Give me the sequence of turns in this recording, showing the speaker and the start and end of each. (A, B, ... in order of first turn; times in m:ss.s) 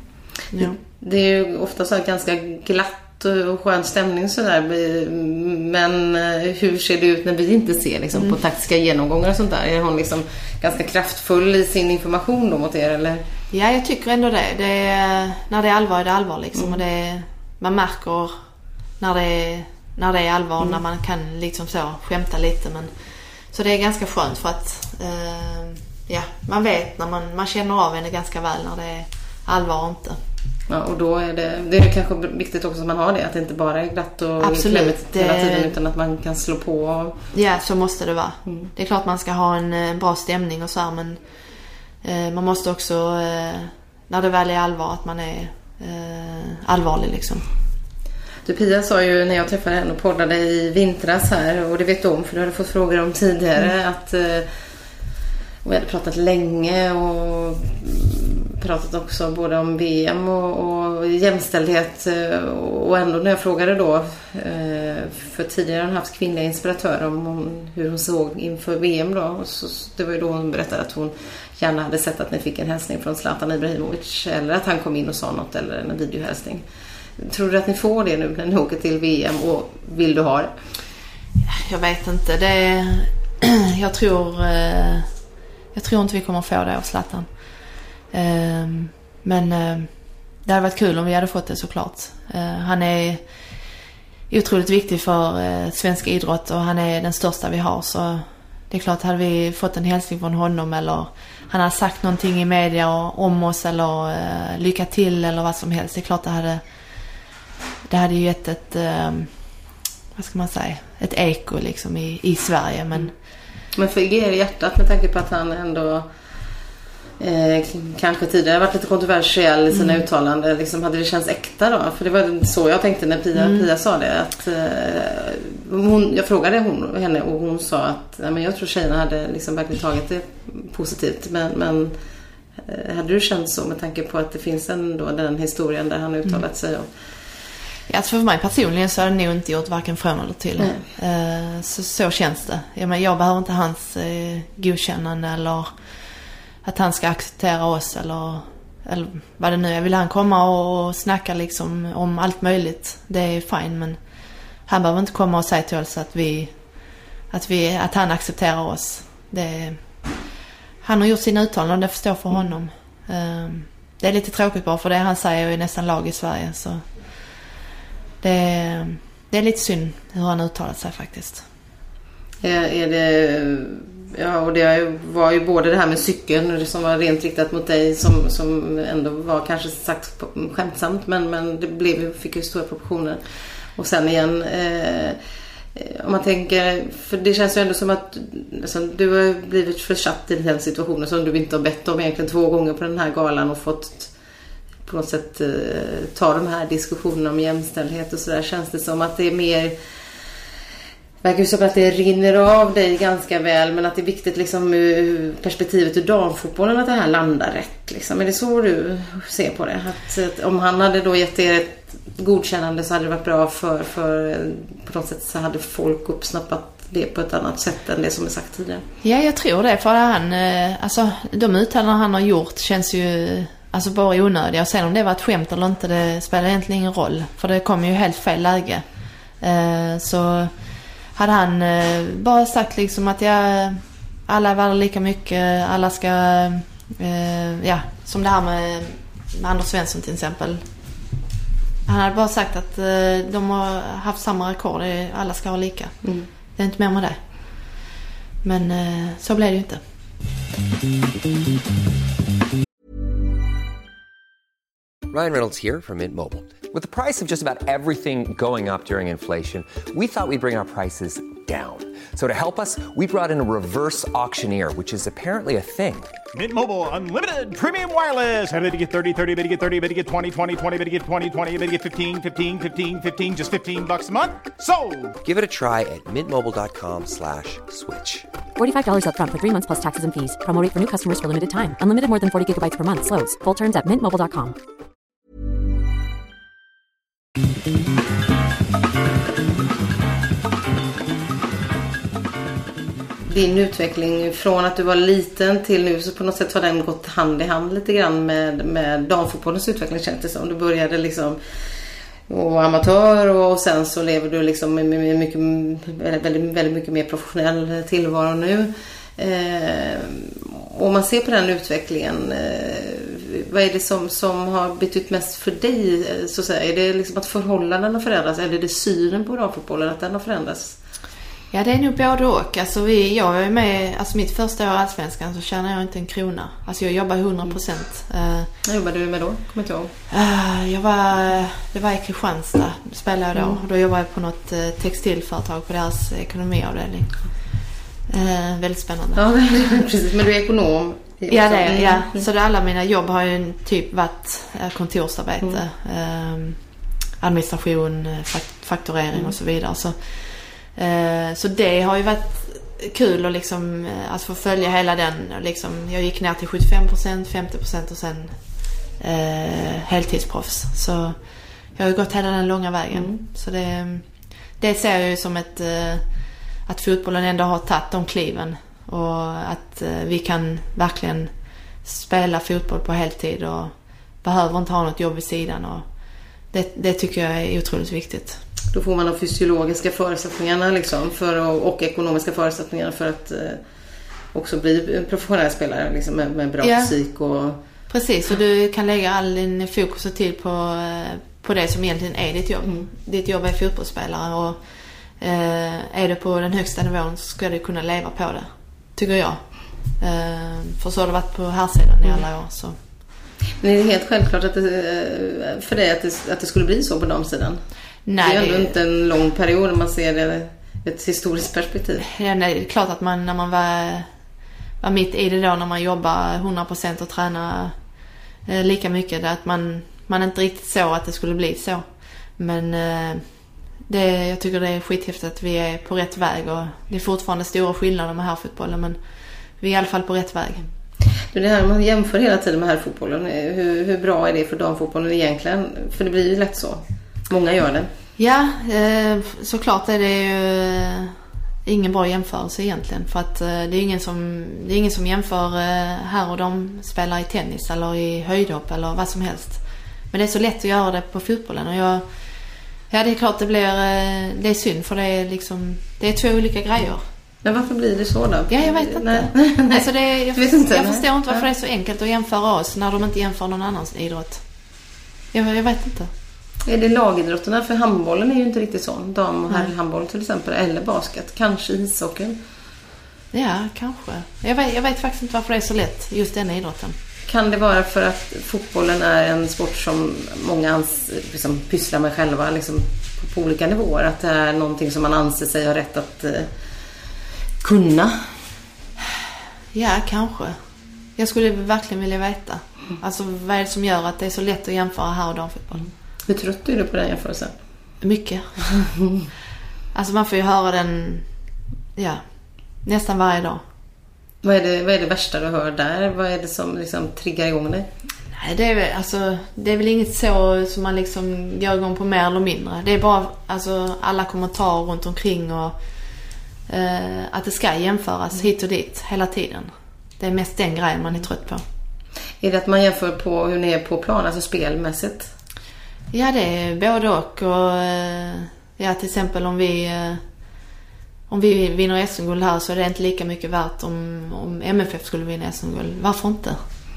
0:00.5-0:00.8 A
0:00.6-0:13.2 B
0:13.5-0:18.4 A
0:16.5-0:16.8 B
0:19.0-0:22.9 A
0:23.5-0:30.2 A
0:30.7-0:37.2 B
0:34.4-0:35.7 A
0:37.3-0:41.2 A
0:42.0-0:47.4 A
0:48.4-0:54.5 B
0:55.6-1:16.6 B
1:17.2-1:20.5 B
1:21.4-1:25.2 A
1:25.7-1:33.3 A
1:34.3-1:46.6 A
1:47.9-1:49.6 A
1:50.1-1:53.1 A
1:53.7-1:56.1 B
1:57.2-2:12.0 B
1:59.7-2:00.0 A
2:03.3-2:03.7 A
2:12.6-2:16.9 B
2:17.9-2:26.1 A
2:20.6-2:20.8 B
2:26.6-2:34.0 A
2:34.6-2:40.2 A
2:40.8-2:46.8 A
2:48.2-2:51.4 A
2:52.4-3:05.2 B
3:05.7-3:14.2 B
3:14.8-3:19.8 B
3:21.2-3:38.8 B
3:39.0-4:00.7 A
4:01.8-4:07.9 A
4:06.0-4:06.3 B
4:08.4-4:09.8 A
4:15.1-4:26.2 C
4:26.3-4:35.2 D
4:35.2-4:38.3 C
4:38.6-4:44.6 E
4:53.2-5:20.8 B
5:21.5-5:28.5 A
5:28.6-5:29.9 B
5:30.1-5:39.2 A
5:33.3-5:33.6 B
5:39.1-5:42.3 B
5:41.3-6:01.2 A
6:01.7-6:15.9 A
6:02.9-6:03.2 B
6:16.5-6:18.4 A
6:18.7-6:23.6 B
6:24.3-6:27.6 B
6:26.6-6:26.9 A
6:27.9-6:42.8 A
6:32.6-6:32.9 B
6:43.6-6:47.7 B
6:48.0-6:48.7 A
6:48.2-6:52.0 B
6:52.1-6:54.1 A
6:54.8-6:57.9 A
6:58.4-7:09.0 A
7:09.6-7:10.6 A
7:11.1-7:17.9 B
7:18.2-7:32.1 A
7:32.9-7:37.0 A
7:37.4-7:41.5 B
7:38.5-7:44.4 A
7:45.3-7:46.1 A
7:46.6-7:52.4 B
7:53.3-7:57.0 A
7:57.3-8:06.5 B
8:07.6-8:08.3 B
8:09.7-8:10.6 A
8:11.2-8:15.8 A
8:15.8-8:17.6 B
8:18.0-8:18.9 A
8:19.9-8:21.3 A
8:21.9-8:22.2 A
8:22.8-8:23.6 A
8:24.4-8:27.9 B
8:28.3-8:35.8 A
8:36.7-8:41.6 A
8:42.4-8:45.3 B
8:46.1-8:50.2 A
8:51.3-8:56.6 A